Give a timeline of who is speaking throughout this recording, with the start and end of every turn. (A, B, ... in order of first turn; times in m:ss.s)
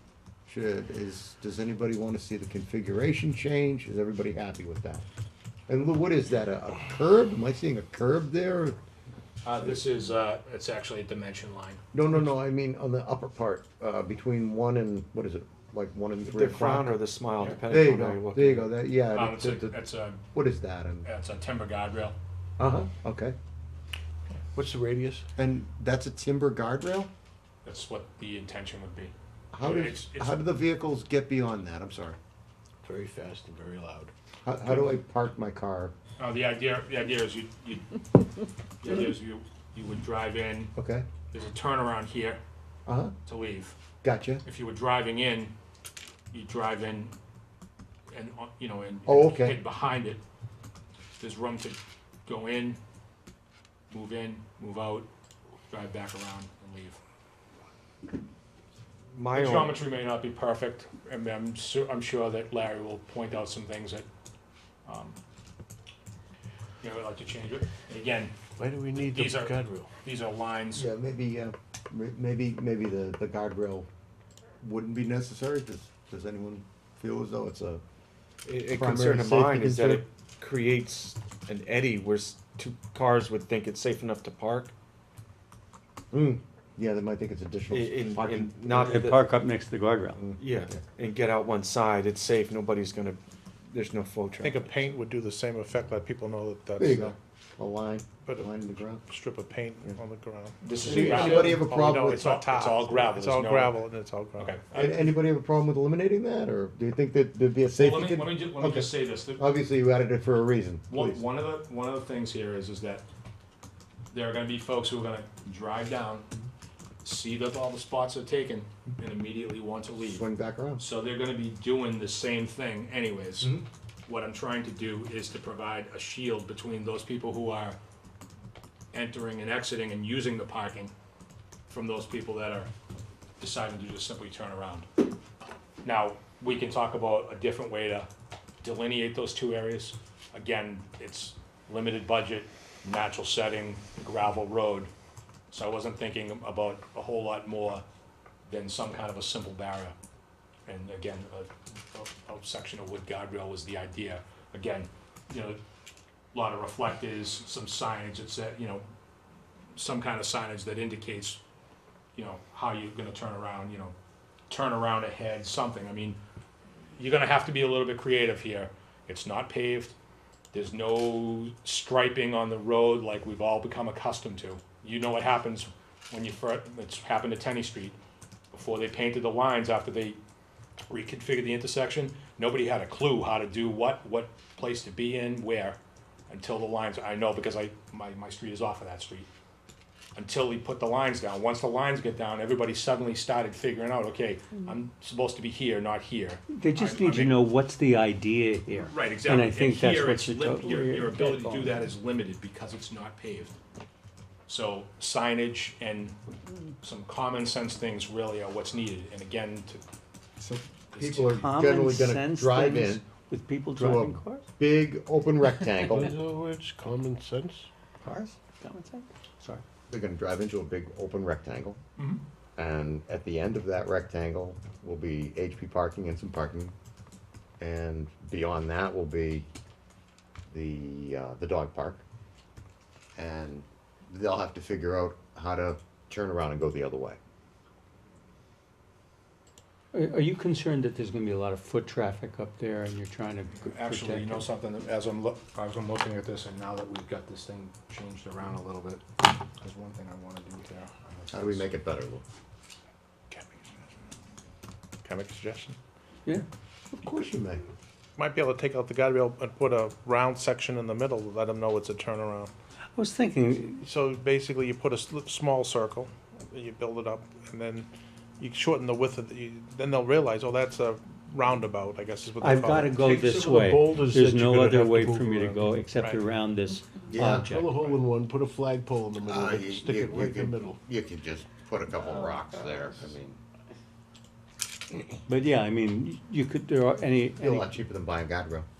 0:00.4-0:05.0 A
0:05.7-0:08.8 A
0:09.4-0:11.8 B
0:11.9-0:17.0 A
0:16.2-0:18.7 C
0:17.7-0:19.8 A
0:19.1-0:20.2 B
0:20.3-0:21.1 A
0:21.0-0:22.2 B
0:22.6-0:23.4 A
0:24.5-0:25.3 D
0:25.4-0:27.1 A
0:27.6-0:30.4 B
0:29.5-0:32.2 A
0:32.8-0:34.1 D
0:34.4-0:35.9 A
0:36.2-0:38.0 B
0:38.8-0:40.7 B
0:40.8-0:41.0 A
0:41.3-0:42.4 B
0:42.8-0:43.1 A
0:43.2-0:43.8 B
0:44.0-0:44.4 A
0:44.4-0:45.5 B
0:46.3-0:47.1 B
0:48.1-0:50.2 B
0:49.0-0:49.6 A
0:51.2-0:52.8 B
0:53.9-0:55.1 B
0:55.7-0:57.0 B
0:59.1-0:59.8 C
0:59.3-1:04.1 B
1:04.8-1:05.2 B
1:06.8-1:08.3 B
1:08.6-1:09.9 D
1:08.9-1:10.9 B
1:10.7-1:13.9 A
1:14.6-1:17.8 A
1:18.4-1:24.7 C
1:18.7-1:20.0 A
1:26.1-1:28.9 A
1:27.7-1:29.3 C
1:28.7-1:30.2 E
1:30.2-1:30.8 A
1:30.3-1:34.8 C
1:34.4-1:37.1 F
1:36.8-1:39.0 A
1:38.2-1:44.5 F
1:40.6-1:43.8 B
1:40.8-1:42.2 A
1:44.4-1:45.2 B
1:44.7-1:51.2 A
1:47.7-1:49.4 B
1:50.9-1:53.0 B
1:54.1-1:56.3 B
1:57.0-2:00.2 B
2:00.0-2:00.8 A
2:00.8-2:07.8 B
2:08.9-2:10.9 B
2:11.7-2:12.7 B
2:13.4-2:14.9 B
2:15.8-2:18.1 B
2:18.6-2:24.9 B
2:25.5-2:27.8 B
2:28.5-2:30.0 B
2:30.7-2:35.6 B
2:36.3-2:38.8 B
2:39.7-2:41.4 B
2:42.2-2:43.9 B
2:44.5-2:46.2 B
2:47.0-2:49.9 B
2:50.5-2:58.0 B
2:58.5-3:00.2 B
3:00.8-3:05.8 B
3:06.3-3:09.3 B
3:10.2-3:17.4 B
3:16.5-3:21.8 E
3:18.7-3:23.6 B
3:24.5-3:26.2 B
3:26.8-3:29.8 B
3:30.4-3:33.1 A
3:30.9-3:31.3 B
3:31.3-3:34.4 E
3:33.8-3:36.1 A
3:36.0-3:37.7 D
3:38.0-3:39.6 E
3:39.9-3:41.8 A
3:42.6-3:46.7 A
3:47.6-3:49.5 A
3:50.5-3:52.0 A
3:53.2-3:57.2 A
3:59.9-4:04.5 E
4:03.6-4:11.7 B
4:11.3-4:12.2 A
4:13.3-4:13.8 F
4:15.0-4:15.8 F
4:16.9-4:17.6 A
4:18.2-4:22.5 F
4:23.0-4:23.8 E
4:23.8-4:27.9 F
4:28.4-4:33.2 F
4:32.4-4:37.8 E
4:33.0-4:35.7 D
4:36.0-4:36.2 F
4:37.1-4:37.5 A
4:37.4-4:40.8 D
4:39.2-4:43.4 A
4:45.3-4:47.7 E
4:47.4-4:48.7 A